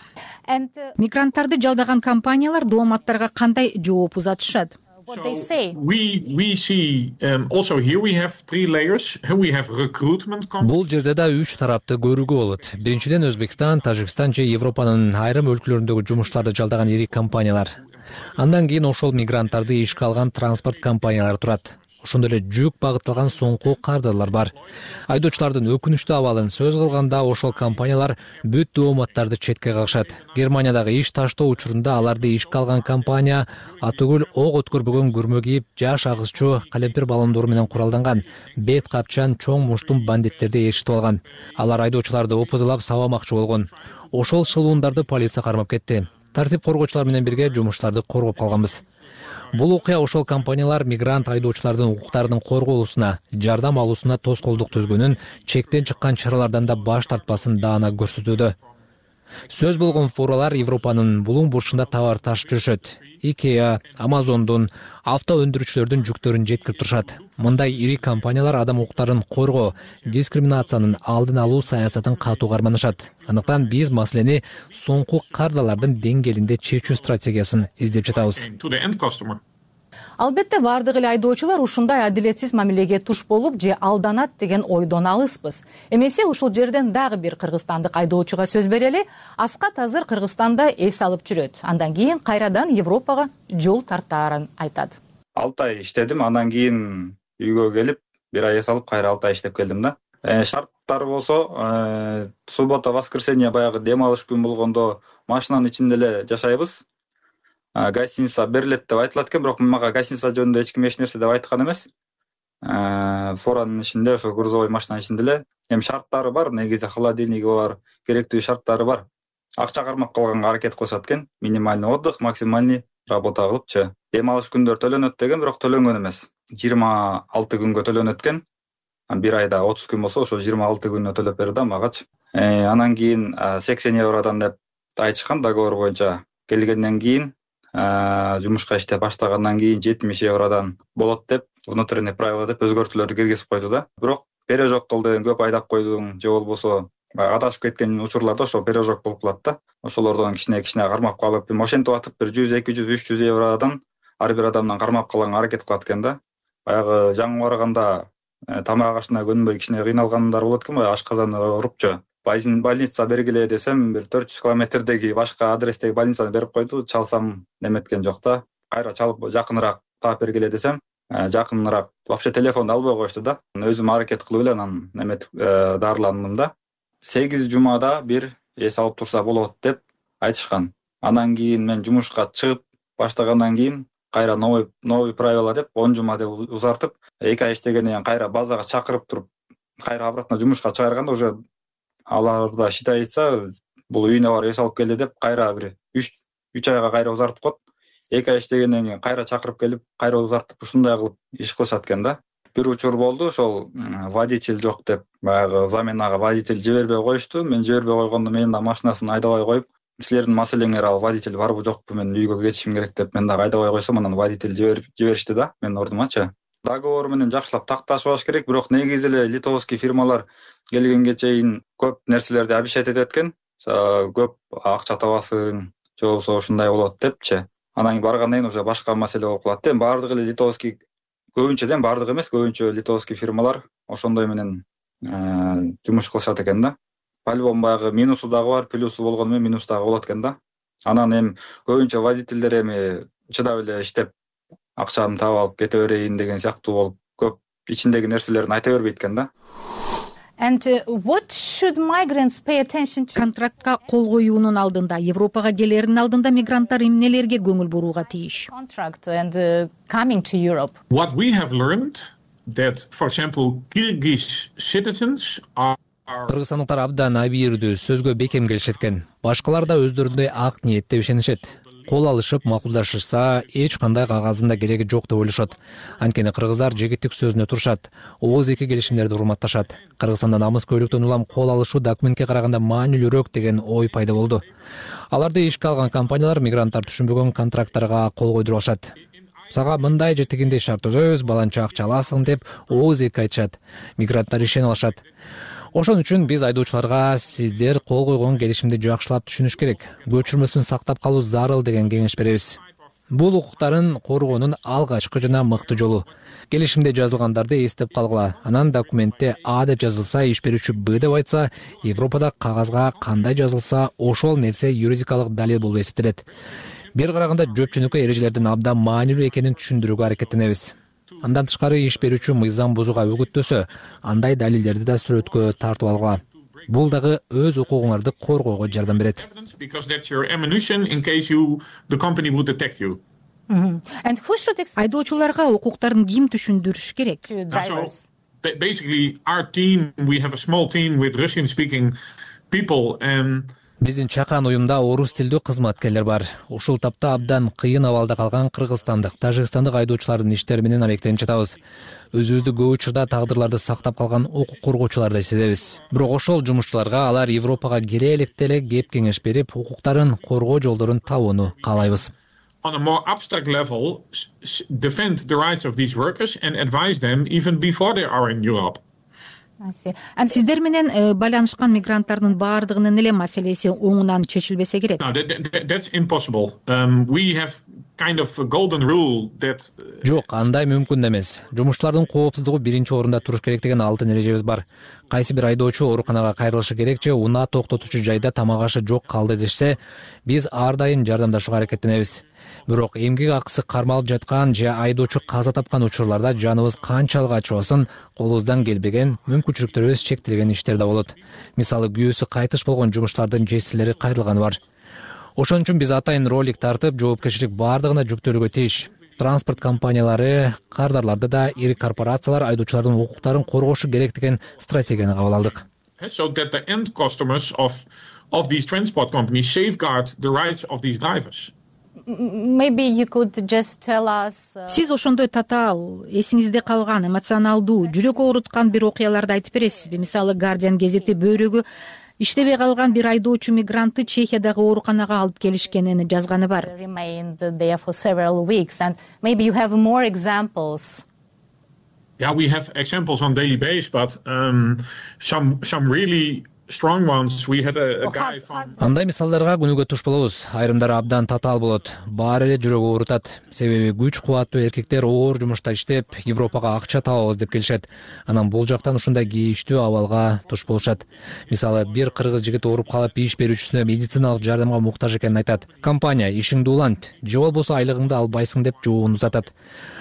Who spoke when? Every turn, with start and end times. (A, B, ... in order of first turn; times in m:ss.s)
0:00.5-0:01.0 A
0:01.0-0:04.8 B
0:05.1-0:05.8 A
0:05.1-0:11.6 C
0:10.6-0:17.8 D
0:12.1-0:15.5 C
0:16.1-0:22.4 C
0:18.4-0:24.5 D
0:23.1-0:35.5 C
0:25.1-0:48.8 D
0:36.0-0:38.0 C
0:39.5-0:45.4 C
0:46.1-0:49.0 C
0:49.5-0:52.5 C
0:49.5-0:58.6 D
0:53.7-0:58.8 C
0:59.5-1:04.5 C
0:59.5-1:18.4 D
1:05.9-1:17.2 C
1:17.9-1:19.4 C
1:20.2-1:35.0 A
1:35.4-1:46.8 E
1:47.8-1:51.9 E
1:52.6-1:59.0 E
1:59.6-2:08.4 E
2:09.1-2:56.5 E
2:57.1-3:09.3 E
3:09.8-3:11.4 E
3:12.1-3:17.6 E
3:18.1-3:50.8 E
3:51.4-3:56.8 E
3:57.3-4:04.1 E
4:04.8-4:09.3 E
4:10.4-4:13.3 A
4:13.1-4:18.5 B
4:18.0-4:20.8 A
4:20.9-4:26.3 C
4:26.3-4:44.4 D
4:45.1-4:48.9 D
4:49.5-4:50.3 C
4:49.5-4:55.0 D
4:55.7-5:02.6 D
5:00.3-5:00.5 C
5:03.1-5:16.3 D
5:04.0-5:04.3 C
5:05.4-5:06.0 C
5:06.7-5:07.1 C
5:08.3-5:08.8 C
5:09.4-5:09.7 C
5:16.9-5:29.2 D
5:17.1-5:20.5 C
5:21.1-5:23.5 C
5:25.2-5:27.0 C
5:27.5-5:33.0 C
5:33.5-5:34.8 A
5:34.8-5:37.2 B
5:37.2-5:38.1 A
5:37.5-5:42.0 C
5:42.5-5:43.5 C
5:43.8-5:51.6 D
5:52.1-6:02.1 D
6:02.6-6:08.8 C
6:09.6-6:10.4 A
6:10.3-6:15.1 B
6:15.0-6:20.0 C
6:20.0-6:44.6 D
6:45.4-6:55.6 D
6:49.0-6:49.5 C
6:56.0-7:01.5 C
7:02.1-7:04.8 A
7:04.7-7:11.6 B
7:12.2-7:16.7 B
7:16.5-7:21.0 A
7:22.2-7:28.9 C
7:28.0-7:28.7 A
7:28.8-7:49.5 D